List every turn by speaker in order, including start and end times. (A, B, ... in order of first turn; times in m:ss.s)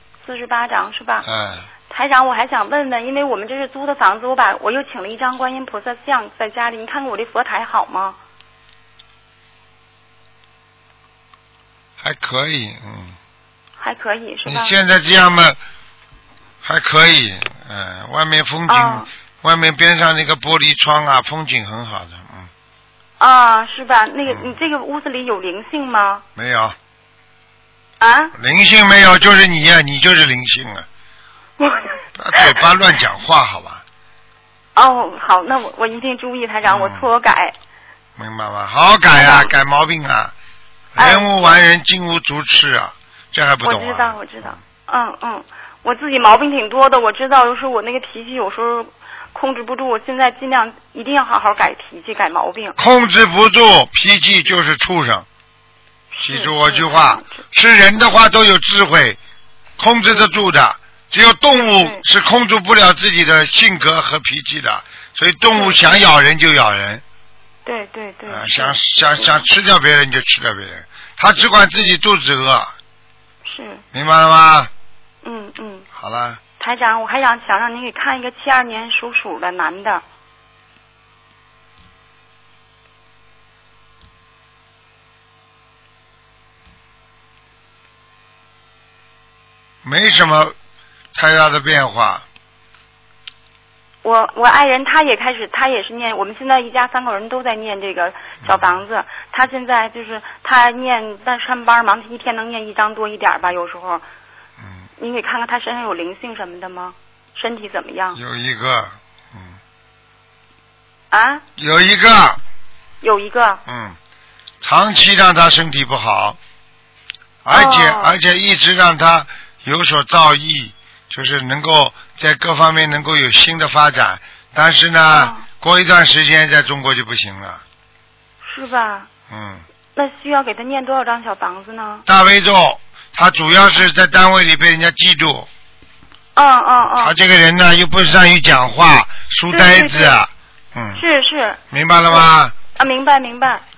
0:00.2-0:01.2 A
0:01.2-0:01.6 B
0:01.9-0:08.2 A
0:12.0-0:13.2 B
0:13.8-0:14.7 A
0:14.4-0:15.6 B
0:16.6-0:22.5 B
0:18.7-0:19.1 A
0:23.2-0:26.2 A
0:24.3-0:24.6 B
0:26.4-0:26.8 B
0:28.0-0:28.3 A
0:28.4-0:30.9 B
0:31.6-0:32.5 A
0:32.1-0:33.8 B
0:34.7-0:37.6 A
0:36.6-0:37.1 B
0:38.2-0:40.3 B
0:39.1-0:39.5 A
0:40.9-0:44.6 B
0:41.0-0:41.7 A
0:43.6-0:52.8 A
0:52.8-0:55.3 B
0:56.1-0:57.4 A
0:56.2-0:59.2 B
0:59.8-1:07.0 B
1:01.6-1:02.0 A
1:05.5-1:05.9 A
1:07.6-1:09.4 A
1:08.3-1:12.7 B
1:13.4-1:13.8 A
1:13.9-1:14.7 B
1:15.2-1:15.9 A
1:15.9-1:16.4 B
1:16.6-1:20.0 A
1:29.8-1:30.6 B
1:31.1-1:32.2 B
1:34.0-1:44.0 A
1:38.4-1:38.8 B
1:45.0-1:48.2 A
1:48.1-1:49.6 B
1:51.1-1:51.4 A
1:51.6-1:52.4 B
1:53.0-1:53.6 A
1:53.7-1:54.0 B
1:54.6-1:56.4 B
1:57.4-2:07.6 B
1:57.5-1:58.2 A
2:05.1-2:05.4 A
2:08.4-2:09.1 A
2:09.3-2:09.6 B
2:10.0-2:12.0 A
2:12.1-2:15.5 B
2:16.4-2:17.1 A
2:17.0-2:21.0 B
2:19.5-2:20.2 A
2:20.9-2:21.6 A
2:21.7-2:22.6 B
2:22.1-2:23.6 A